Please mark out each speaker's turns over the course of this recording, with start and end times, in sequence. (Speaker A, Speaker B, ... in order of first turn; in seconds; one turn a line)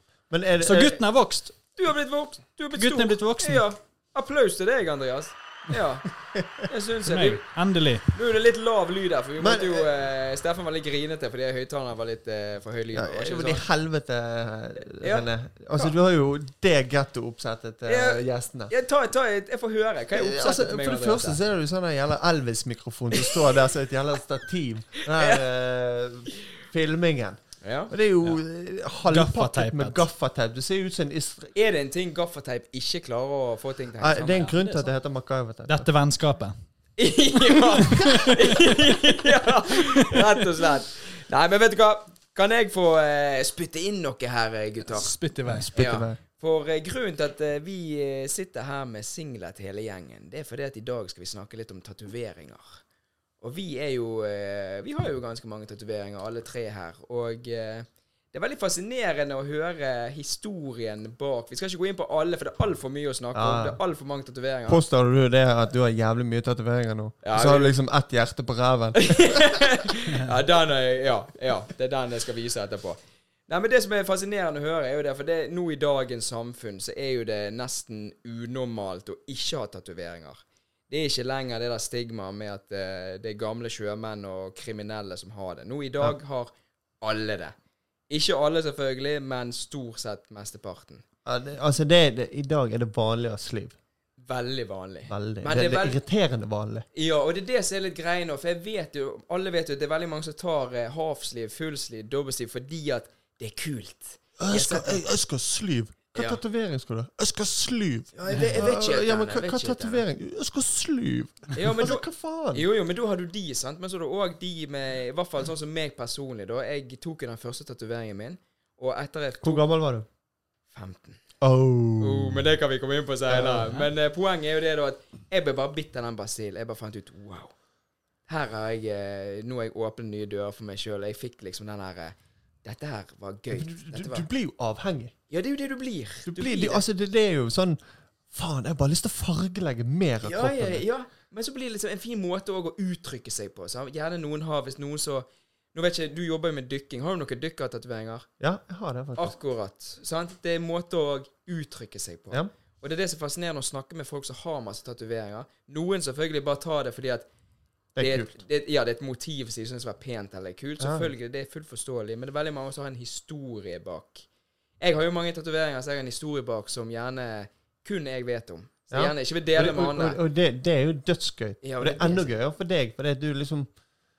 Speaker A: 0.3-1.0
Speaker B: 0.6-1.6
Speaker C: 1.8-6.1
Speaker B: 2.8-3.6
Speaker A: 6.3-6.7
Speaker C: 6.6-7.4
Speaker B: 7.1-8.1
Speaker C: 8.1-13.6
Speaker A: 9.4-9.9
Speaker A: 12.9-18.7
Speaker C: 15.0-15.9
Speaker C: 17.9-21.4
Speaker A: 20.1-31.5
Speaker C: 23.1-23.4
Speaker C: 25.0-25.4
Speaker C: 27.6-27.9
Speaker B: 29.1-30.0
Speaker C: 31.6-34.9
Speaker A: 34.0-35.9
Speaker B: 35.7-36.6
Speaker C: 37.0-45.1
Speaker B: 37.9-39.1
Speaker B: 39.7-40.5
Speaker B: 44.9-45.7
Speaker A: 45.5-46.2
Speaker C: 45.7-52.7
Speaker C: 53.4-64.8
Speaker A: 63.3-63.8
Speaker A: 64.7-69.9
Speaker C: 67.2-67.7
Speaker C: 69.0-87.5
Speaker B: 70.1-70.3
Speaker C: 88.1-91.0
Speaker A: 91.2-93.8
Speaker C: 94.2-96.0
Speaker A: 95.1-96.8
Speaker C: 97.0-105.1
Speaker A: 104.4-112.7
Speaker C: 106.1-106.4
Speaker C: 108.2-110.0
Speaker C: 111.5-119.6
Speaker A: 119.4-120.1
Speaker C: 120.7-121.2
Speaker A: 121.4-122.4
Speaker C: 122.0-127.5
Speaker A: 123.3-123.8
Speaker C: 128.3-134.3
Speaker A: 133.5-135.1
Speaker C: 135.3-136.8
Speaker A: 136.3-137.8
Speaker A: 138.3-140.9
Speaker C: 140.2-148.3
Speaker A: 148.4-149.4
Speaker C: 149.2-157.3
Speaker A: 158.0-158.3
Speaker C: 158.0-164.2
Speaker A: 160.8-161.1
Speaker C: 164.8-170.2
Speaker A: 168.9-173.7
Speaker C: 171.6-172.3